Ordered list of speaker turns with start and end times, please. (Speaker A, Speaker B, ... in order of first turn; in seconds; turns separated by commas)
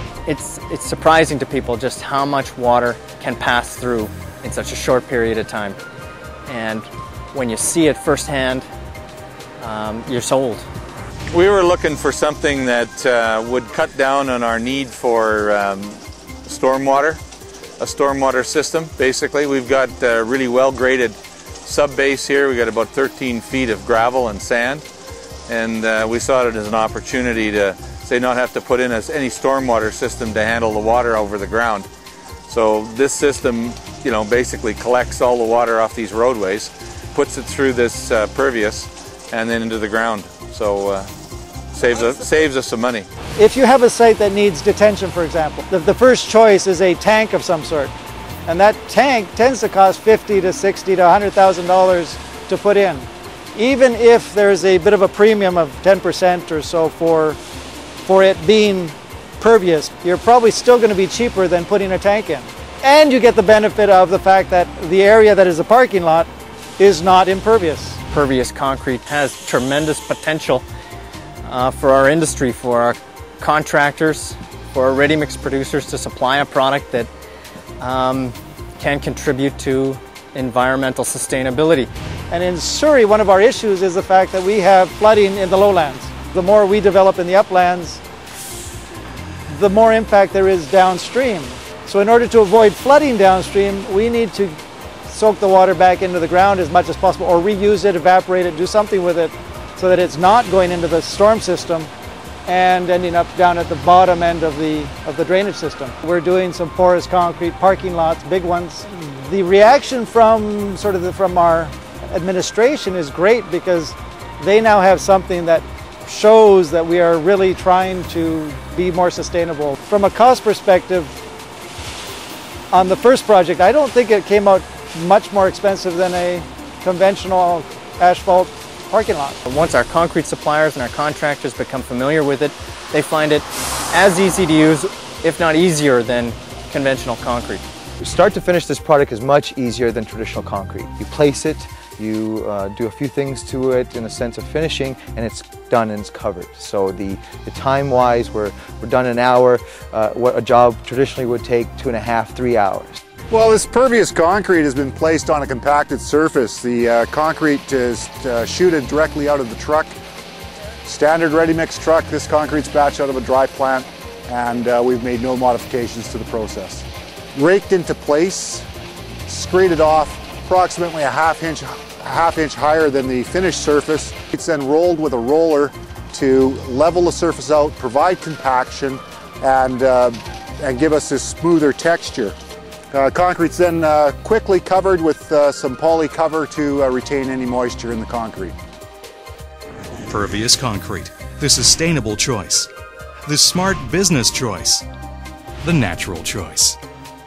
Speaker A: 0.2-5.8, Speaker A: 6.5-8.7, Speaker A: 9.6-10.6, Speaker B: 11.3-17.2, Speaker B: 17.8-24.8, Speaker B: 25.5-31.9, Speaker B: 32.5-41.1, Speaker B: 41.7-43.1, Speaker C: 43.4-47.9, Speaker C: 48.5-57.4, Speaker C: 58.0-68.0, Speaker A: 68.1-70.6, Speaker A: 71.4-77.1, Speaker A: 77.8-81.9, Speaker C: 82.3-88.0, Speaker C: 89.5-101.9, Speaker C: 102.5-121.1, Speaker C: 122.7-129.4, Speaker A: 129.5-137.6, Speaker D: 138.0-153.0, Speaker E: 153.3-159.9, Speaker E: 160.8-168.7, Speaker E: 169.3-182.3, Speaker E: 182.9-188.5, Speaker F: 190.1-192.7, Speaker F: 193.2-194.8, Speaker F: 195.6-196.8